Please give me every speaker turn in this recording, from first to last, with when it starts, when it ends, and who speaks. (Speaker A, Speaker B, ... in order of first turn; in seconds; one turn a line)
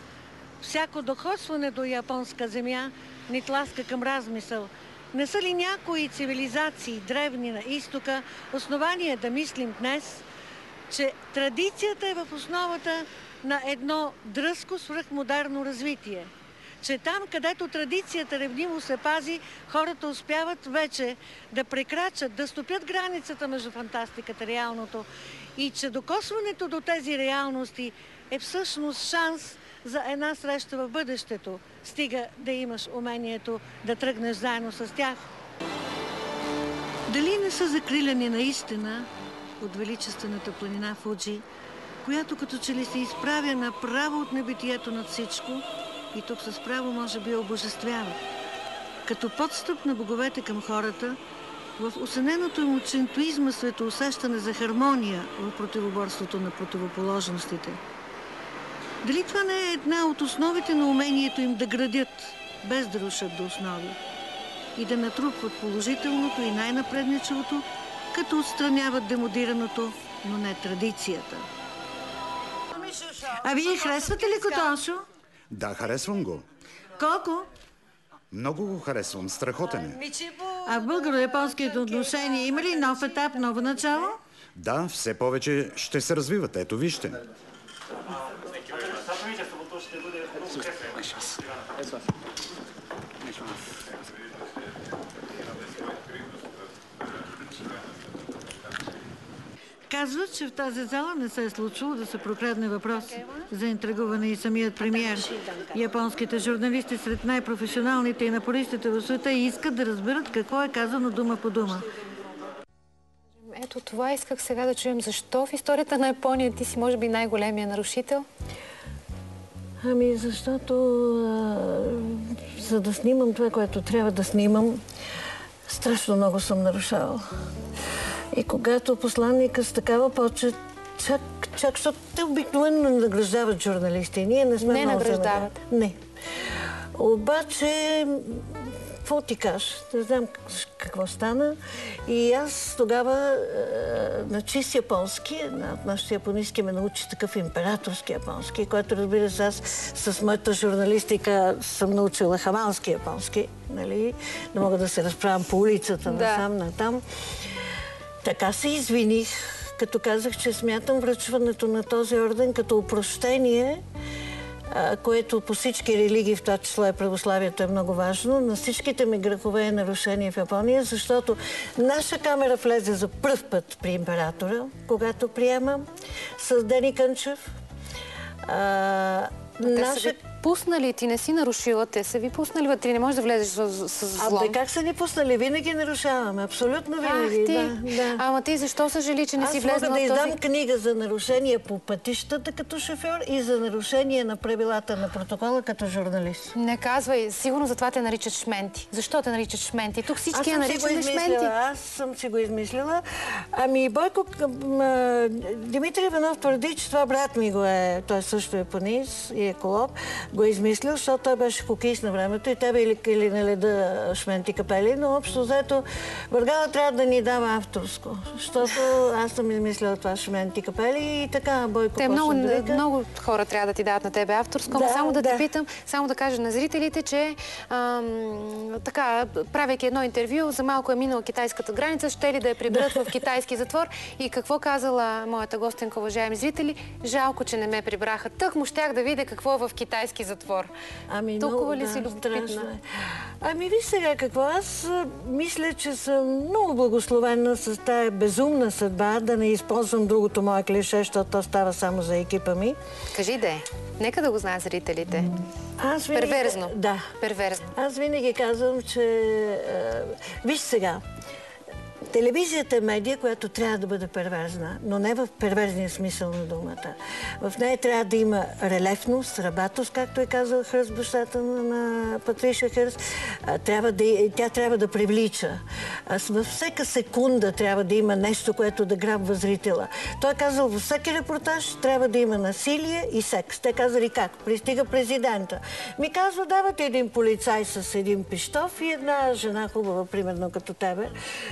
Speaker A: 0.6-10.2
Speaker A: 10.9-35.3
Speaker A: 37.1-39.1
Speaker A: 39.6-41.4
Speaker A: 42.0-48.2
Speaker A: 49.0-51.2
Speaker A: 51.8-57.8
Speaker A: 59.0-64.0
Speaker A: 64.8-71.5
Speaker A: 72.8-75.0
Speaker B: 75.5-76.4
Speaker A: 77.0-77.5
Speaker B: 78.3-80.0
Speaker A: 80.1-84.2
Speaker B: 84.5-87.2
Speaker B: 90.8-91.4
Speaker A: 99.9-111.9
Speaker C: 113.4-118.2
Speaker A: 119.8-124.8
Speaker A: 125.7-127.2
Speaker A: 128.3-157.5
Speaker C: 134.6-135.6
Speaker C: 156.1-156.5
Speaker A: 158.2-163.8
Speaker A: 164.7-177.5
Speaker A: 178.4-180.2
Speaker C: 179.6-184.6
Speaker A: 184.2-188.2
Speaker C: 187.0-190.4
Speaker A: 189.4-196.6
Speaker C: 196.5-201.5
Speaker A: 200.3-222.8
Speaker C: 222.0-240.7
Speaker A: 224.7-225.5
Speaker A: 241.1-242.8
Speaker C: 241.4-242.7
Speaker A: 243.4-252.8
Speaker C: 253.1-255.3
Speaker A: 255.8-257.1
Speaker C: 256.1-257.7
Speaker A: 257.6-261.0
Speaker A: 262.1-291.1